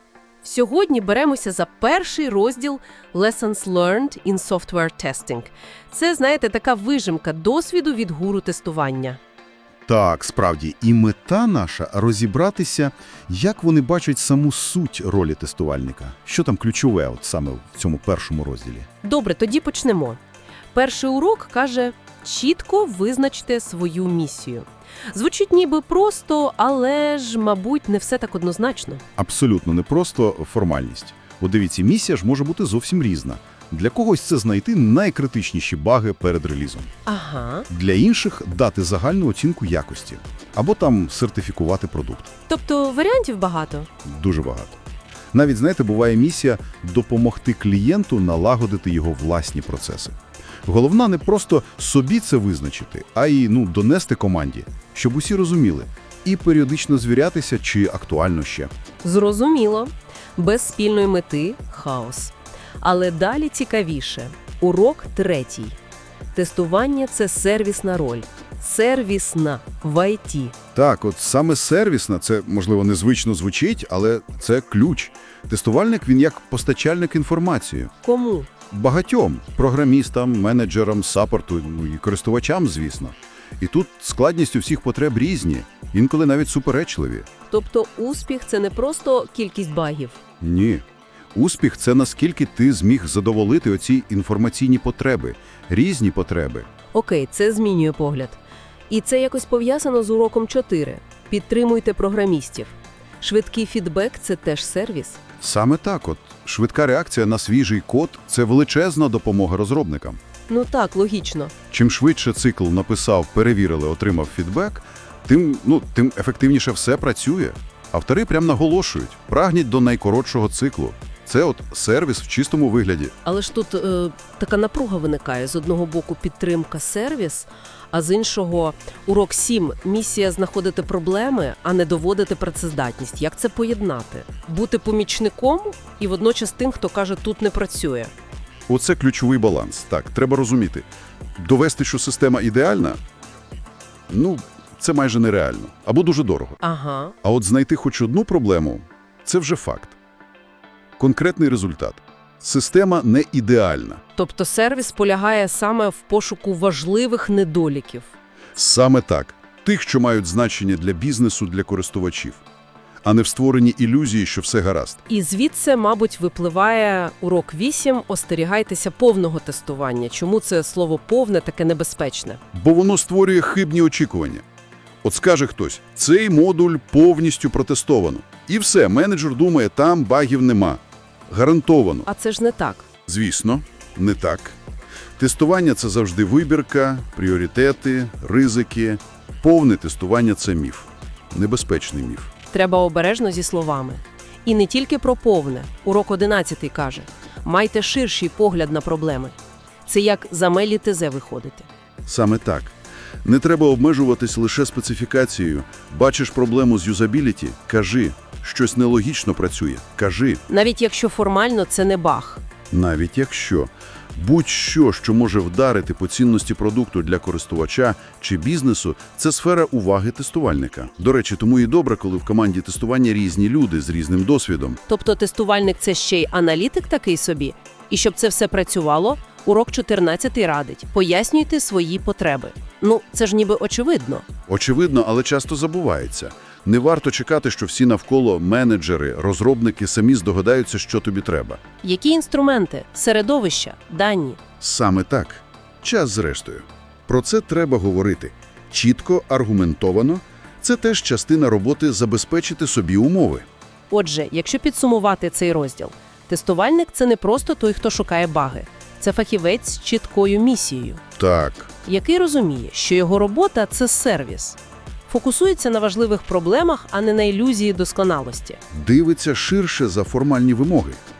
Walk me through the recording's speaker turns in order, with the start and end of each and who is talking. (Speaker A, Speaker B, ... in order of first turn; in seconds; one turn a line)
Speaker A: 0.4-9.2
Speaker B: 9.9-18.9
Speaker A: 19.0-20.2
Speaker A: 20.7-29.0
Speaker B: 29.2-36.9
Speaker A: 37.0-37.7
Speaker B: 37.7-42.3
Speaker A: 42.5-43.9
Speaker B: 44.0-44.8
Speaker B: 45.3-58.7
Speaker A: 59.0-65.8
Speaker A: 66.3-70.5
Speaker B: 70.7-77.9
Speaker A: 78.0-78.5
Speaker B: 78.7-87.3
Speaker A: 87.5-90.2
Speaker B: 90.4-90.8
Speaker B: 91.3-96.7
Speaker A: 96.9-105.2
Speaker B: 105.4-110.2
Speaker A: 110.5-111.5
Speaker B: 111.7-123.1
Speaker A: 123.2-138.1
Speaker B: 138.7-143.0
Speaker B: 144.1-146.6
Speaker A: 146.6-147.1
Speaker B: 147.2-149.9
Speaker B: 151.0-154.0
Speaker A: 154.2-158.1
Speaker B: 158.5-162.4
Speaker B: 163.0-165.0
Speaker A: 165.1-172.4
Speaker B: 172.5-174.4
Speaker B: 175.0-182.1
Speaker A: 182.1-182.9
Speaker B: 183.1-184.6
Speaker B: 185.2-192.3
Speaker A: 192.5-199.3
Speaker A: 199.8-201.7
Speaker B: 202.1-210.4
Speaker A: 210.5-212.4
Speaker B: 212.7-224.8
Speaker A: 224.9-234.2
Speaker B: 234.5-241.6
Speaker A: 241.8-244.4
Speaker B: 244.6-253.5
Speaker A: 253.9-261.0
Speaker B: 261.2-261.7
Speaker A: 261.8-268.6
Speaker B: 268.7-271.0